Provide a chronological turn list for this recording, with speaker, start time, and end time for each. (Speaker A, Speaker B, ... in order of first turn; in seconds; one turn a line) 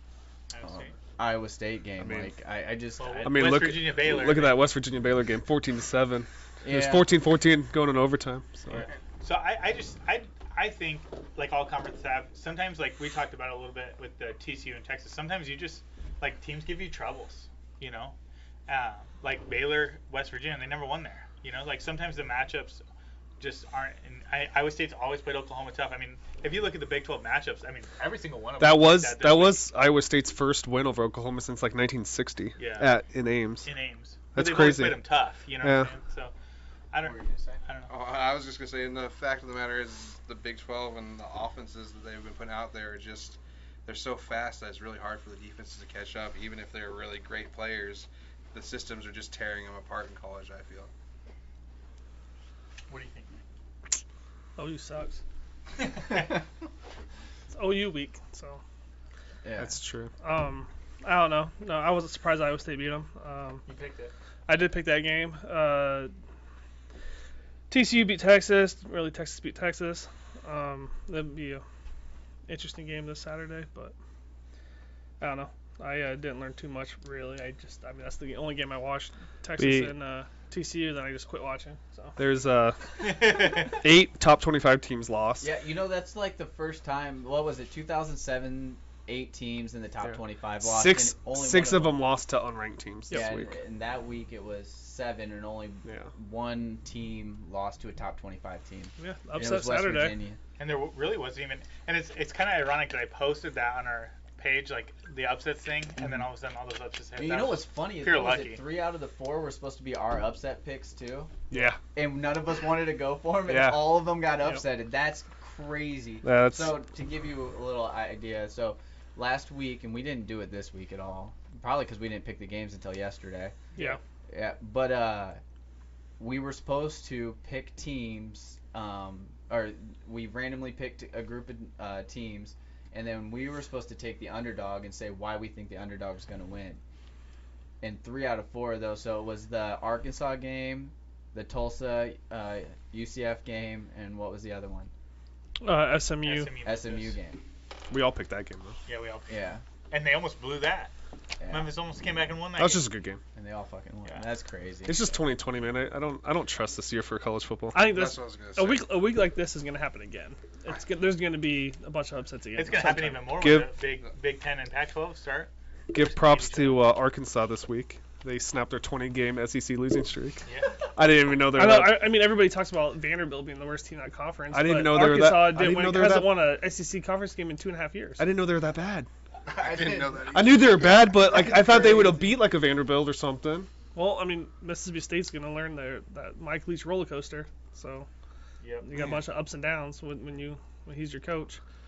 Speaker A: 0.5-0.9
Speaker B: 0.6-3.5
Speaker C: 2.0-2.3
Speaker A: 3.0-4.6
Speaker C: 3.2-8.9
Speaker B: 6.6-7.1
Speaker A: 8.7-18.1
Speaker A: 18.7-22.8
Speaker A: 23.4-29.6
Speaker C: 28.6-33.7
Speaker A: 32.6-32.9
Speaker A: 33.6-36.3
Speaker C: 34.3-35.9
Speaker A: 36.9-37.9
Speaker B: 37.0-37.6
Speaker D: 37.9-50.9
Speaker A: 52.9-53.4
Speaker E: 54.5-55.2
Speaker A: 55.8-56.4
Speaker E: 57.5-58.6
Speaker B: 59.4-59.7
Speaker C: 59.6-60.1
Speaker E: 60.2-63.6
Speaker A: 63.6-64.1
Speaker E: 64.5-66.1
Speaker E: 67.7-71.6
Speaker E: 72.5-73.9
Speaker E: 75.2-82.2
Speaker C: 79.6-79.9
Speaker C: 82.2-85.5
Speaker A: 83.0-83.7
Speaker B: 85.4-92.1
Speaker C: 90.1-93.5
Speaker B: 93.1-100.4
Speaker E: 99.0-100.2
Speaker A: 100.6-108.6
Speaker B: 107.2-111.3
Speaker C: 111.5-111.8
Speaker B: 111.9-123.7
Speaker C: 113.5-114.0
Speaker C: 116.2-116.8
Speaker B: 124.3-125.4
Speaker B: 126.2-136.8
Speaker B: 137.8-144.9
Speaker E: 145.6-146.5
Speaker A: 146.2-147.2
Speaker B: 146.6-147.4
Speaker C: 147.9-148.8
Speaker A: 148.9-150.9
Speaker B: 149.3-149.6
Speaker B: 151.4-151.7
Speaker A: 151.5-152.9
Speaker C: 152.6-153.2
Speaker B: 153.3-155.0
Speaker C: 154.9-157.9
Speaker E: 157.7-163.3
Speaker D: 157.8-158.9
Speaker A: 162.5-166.9
Speaker C: 163.4-163.7
Speaker C: 165.9-172.1
Speaker A: 170.4-170.8
Speaker E: 171.5-178.2
Speaker C: 174.5-176.3
Speaker C: 178.2-179.1
Speaker B: 179.5-180.3
Speaker D: 179.5-181.1
Speaker C: 180.3-183.7
Speaker B: 181.0-182.4
Speaker E: 183.9-188.1
Speaker A: 188.6-188.9
Speaker E: 188.8-191.6